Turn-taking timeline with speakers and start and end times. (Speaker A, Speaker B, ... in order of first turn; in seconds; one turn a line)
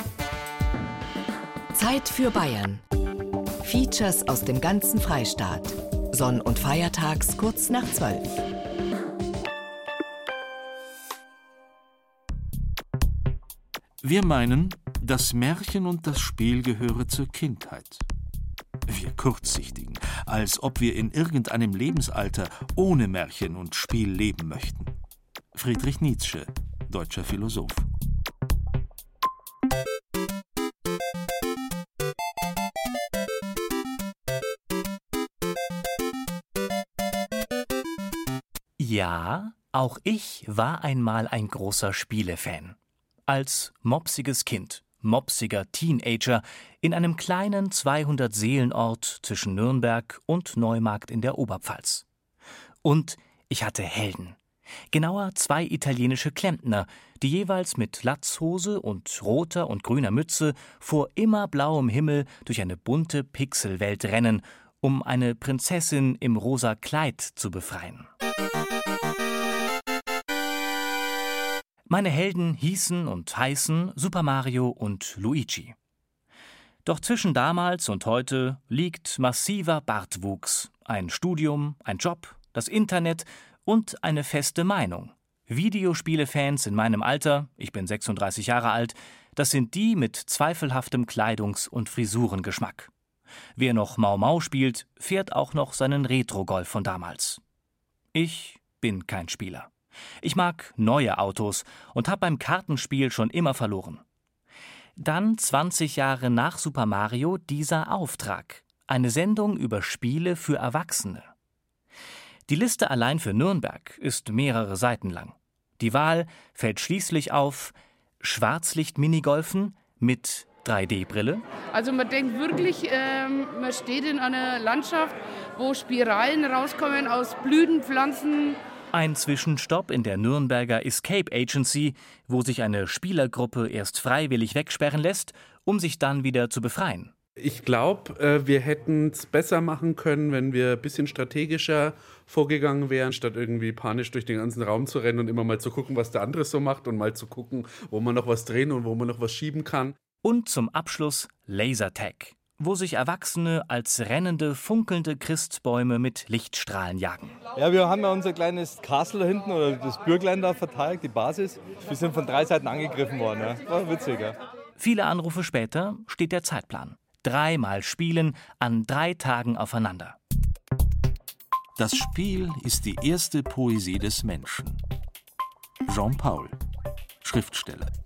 Speaker A: 1.7-2.8
Speaker A: 3.6-8.4
Speaker B: 14.0-18.0
Speaker B: 18.9-24.9
Speaker B: 25.5-27.8
Speaker C: 38.8-42.8
Speaker C: 43.3-52.0
Speaker C: 52.8-54.4
Speaker C: 54.9-68.1
Speaker C: 71.9-75.7
Speaker C: 76.8-92.9
Speaker C: 93.5-97.4
Speaker C: 98.1-99.7
Speaker C: 100.2-104.0
Speaker C: 105.0-111.3
Speaker C: 112.5-121.4
Speaker D: 121.7-128.6
Speaker C: 128.9-137.1
Speaker E: 137.4-149.9
Speaker C: 150.2-157.4
Speaker F: 157.5-164.4
Speaker C: 164.8-170.2
Speaker B: 171.8-174.8
Speaker B: 175.8-176.6
Speaker B: 177.2-177.9